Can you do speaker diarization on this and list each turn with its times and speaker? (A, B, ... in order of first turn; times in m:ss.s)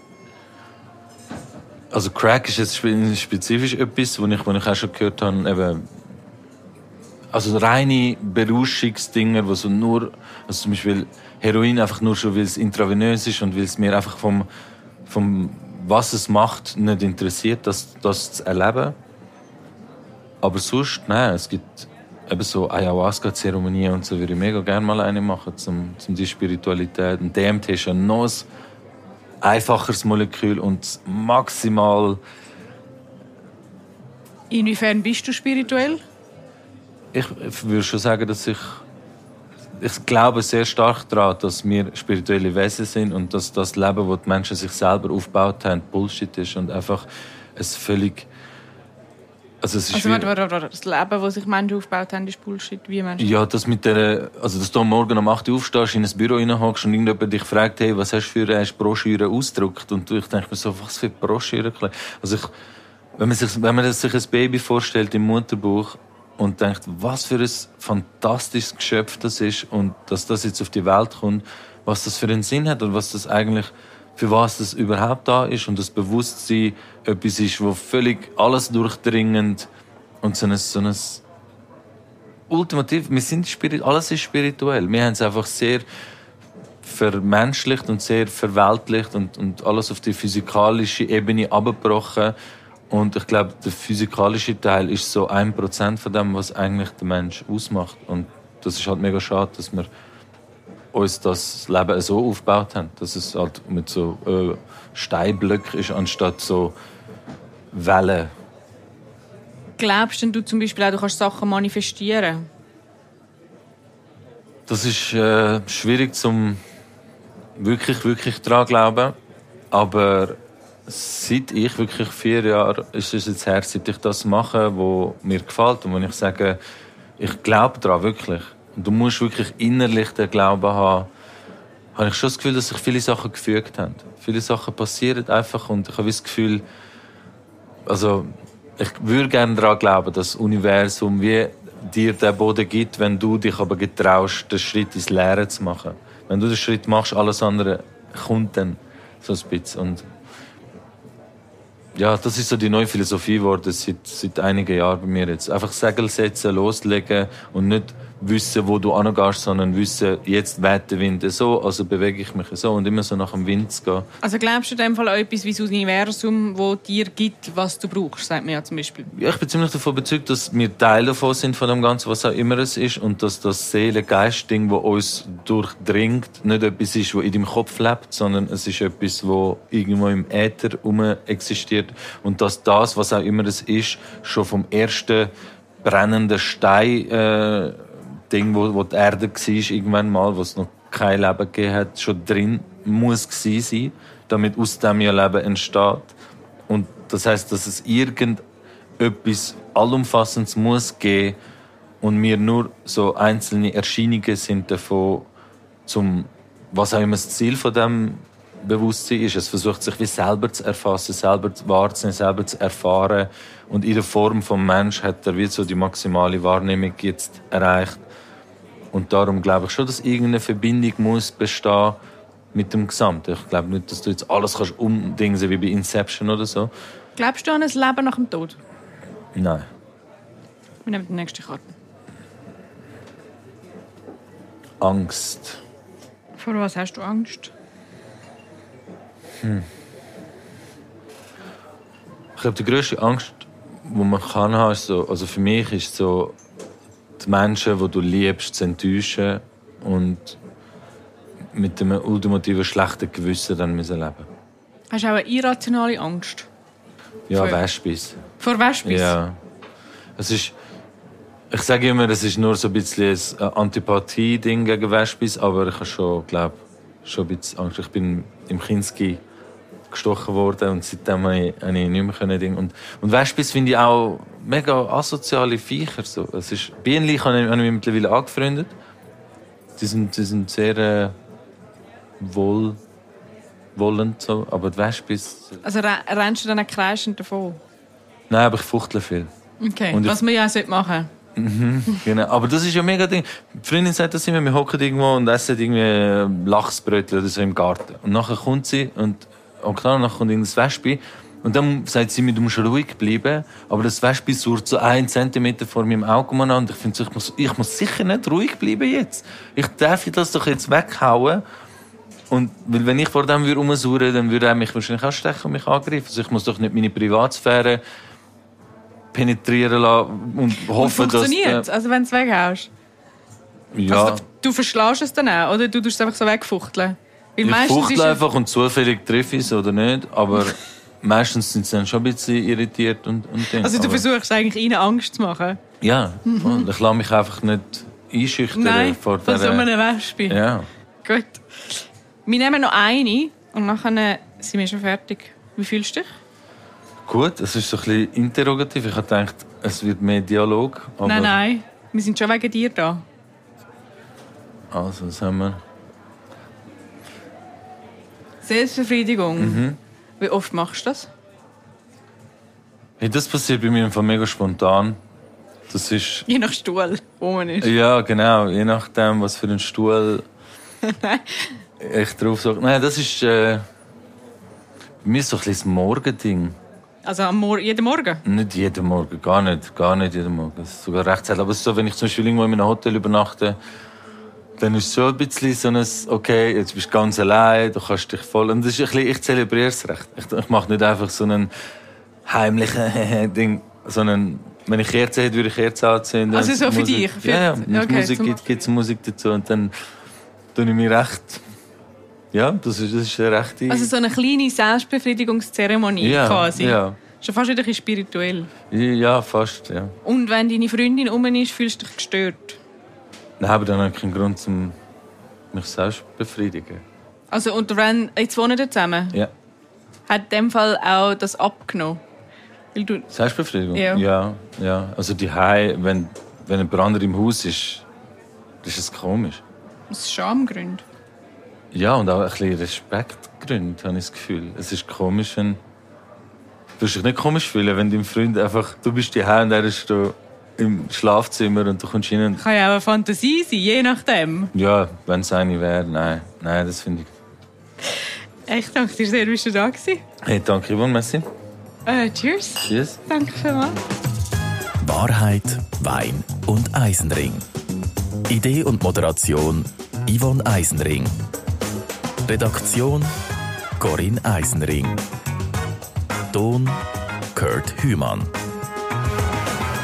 0:01.9-0:05.8 A
0:07.3-0:14.5 A
0:15.0-0:19.0 A
0:20.4-0:28.5 A
0:29.4-0:32.2 A
0:34.5-0:36.0 B
0:37.1-0:38.8 A
0:39.8-0:48.3 A
0:49.6-0:50.3 A
0:49.9-0:53.4 B
0:53.2-1:02.5 A
1:03.2-1:19.7 A
1:20.2-1:21.2 A
1:22.5-1:25.8 A
1:26.8-1:32.3 A
1:32.9-1:39.9 A
1:40.9-1:46.8 A
1:47.7-1:48.3 A
1:49.8-1:52.4 B
1:54.7-1:56.6 A
1:57.6-1:59.2 A
1:59.7-2:06.6 A
2:07.2-2:11.1 A
2:12.0-2:16.6 A
2:17.9-2:30.1 A
2:32.0-2:44.1 A
2:44.2-2:49.1 B
2:49.1-3:05.3 A
3:05.8-3:16.1 A
3:16.7-3:18.4 A
3:19.0-3:21.4 A
3:22.0-3:25.3 A
3:25.8-3:38.0 A
3:38.9-3:42.0 A
3:42.5-3:46.7 A
3:47.2-3:48.6 B
3:49.3-3:49.6 A
3:50.8-3:51.7 B
3:54.8-3:55.6 A
3:56.4-3:57.5 B
3:59.4-3:59.7 A
4:02.4-4:06.4 A
4:07.2-4:10.4 A
4:11.5-4:14.3 A
4:14.9-4:16.5 B
4:17.3-4:18.2 A
4:17.3-4:17.6 B
4:18.4-4:19.2 B
4:18.8-4:19.4 A
4:20.2-4:20.5 A
4:21.5-4:29.2 A
4:29.9-4:38.7 A
4:39.8-4:41.2 A
4:42.2-4:42.8 A
4:43.8-4:45.6 A
4:45.6-4:47.6 B
4:48.3-4:49.3 A
4:49.6-4:51.1 B
4:49.9-4:50.2 A
4:51.4-5:11.4 A
5:12.3-5:17.8 A
5:19.1-5:21.7 A
5:20.6-5:22.7 B
5:23.7-5:24.2 A
5:23.9-5:28.2 B
5:27.4-5:34.0 A
5:33.4-5:35.6 B
5:35.8-5:39.7 A
5:36.2-5:36.6 B
5:38.5-5:40.4 B
5:40.2-5:40.7 A
5:41.0-5:46.1 B
5:47.0-5:51.4 A
5:51.0-5:53.0 B
5:54.7-5:55.6 A
5:58.4-5:59.6 B
5:59.4-5:59.8 A
6:00.2-6:01.1 B
6:03.0-6:05.0 A
6:05.7-6:06.2 A
6:06.2-6:07.7 B
6:07.6-6:10.2 A
6:10.8-6:11.6 B
6:11.8-6:13.6 A
6:15.0-6:16.6 A
6:17.0-6:18.2 B
6:18.2-6:23.6 A
6:24.6-6:31.5 A
6:32.2-6:39.7 A
6:36.3-6:38.4 B
6:40.5-6:41.4 A
6:42.3-6:43.9 A
6:43.7-6:48.5 B
6:46.0-6:47.0 A
6:48.7-6:49.9 A
6:50.0-6:52.6 B
6:53.4-6:54.8 A
6:55.5-6:56.8 A
6:57.3-6:59.2 B
7:00.1-7:02.0 B
7:02.7-7:03.1 B
7:03.1-7:07.8 A
7:03.7-7:04.0 B
7:08.6-7:09.4 A
7:09.9-7:10.8 B
7:11.7-7:15.6 A
7:16.8-7:22.4 A
7:22.4-7:24.5 B
7:24.5-7:27.1 A
7:28.5-7:30.0 B
7:30.2-7:31.2 A
7:31.8-7:33.8 B
7:32.6-7:33.0 A
7:34.8-7:37.4 C
7:38.3-7:41.2 C
7:42.2-7:43.1 C
7:43.8-7:45.0 C
7:46.3-7:48.3 C